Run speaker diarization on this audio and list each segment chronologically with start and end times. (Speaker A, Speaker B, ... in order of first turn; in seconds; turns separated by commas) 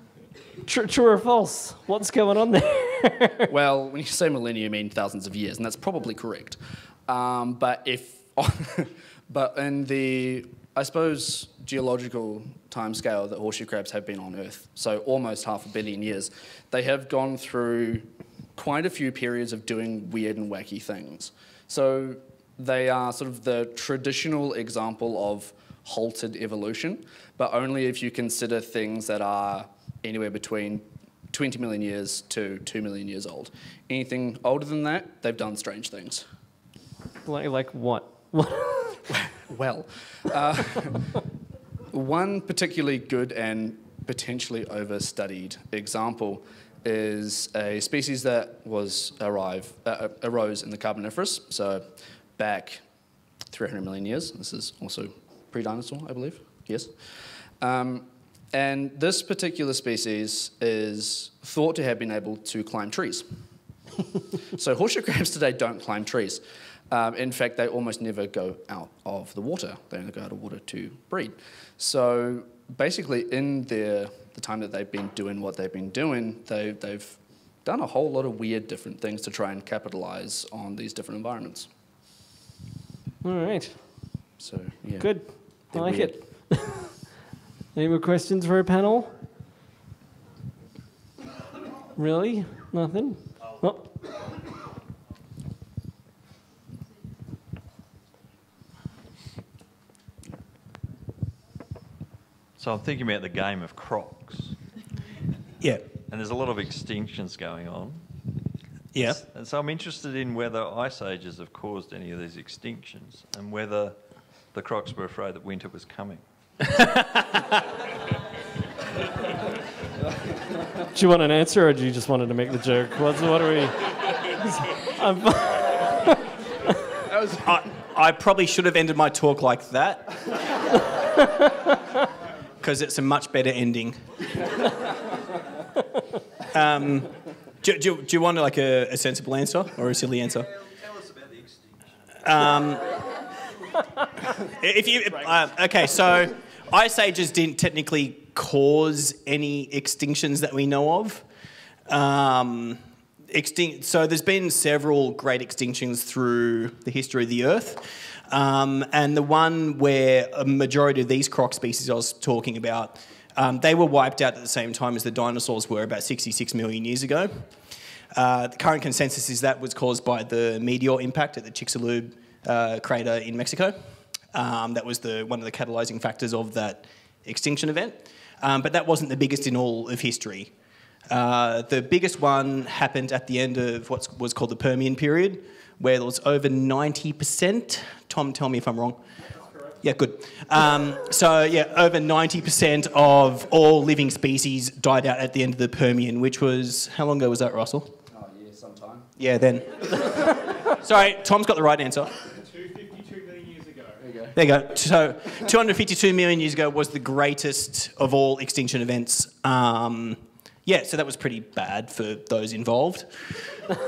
Speaker A: 0.6-3.5, Speaker B: 3.5-36.2, Speaker A: 37.2-39.1, Speaker B: 39.2-41.1, Speaker B: 41.9-52.8, Speaker B: 53.5-63.4, Speaker B: 64.5-81.7, Speaker A: 83.2-84.3, Speaker B: 84.4-86.5, Speaker A: 85.0-87.0, Speaker A: 87.7-89.1, Speaker A: 92.0-94.0, Speaker C: 102.6-104.6, Speaker D: 105.6-105.8, Speaker C: 106.0-108.1, Speaker D: 108.9-109.2, Speaker C: 109.0-116.2, Speaker D: 116.8-117.1, Speaker A: 120.9-126.1, Speaker B: 127.1-127.3, Speaker D: 127.4-130.3, Speaker D: 132.6-134.0, Speaker D: 136.5-140.6, Speaker D: 142.2-143.1, Speaker D: 144.4-151.2, Speaker D: 151.9-167.5, Speaker D: 168.1-173.8, Speaker D: 174.3-180.5, Speaker D: 181.1-189.0, Speaker D: 189.8-197.9, Speaker B: 198.1-199.1, Speaker D: 199.2-202.2, Speaker B: 204.0-204.3, Speaker D: 204.3-213.4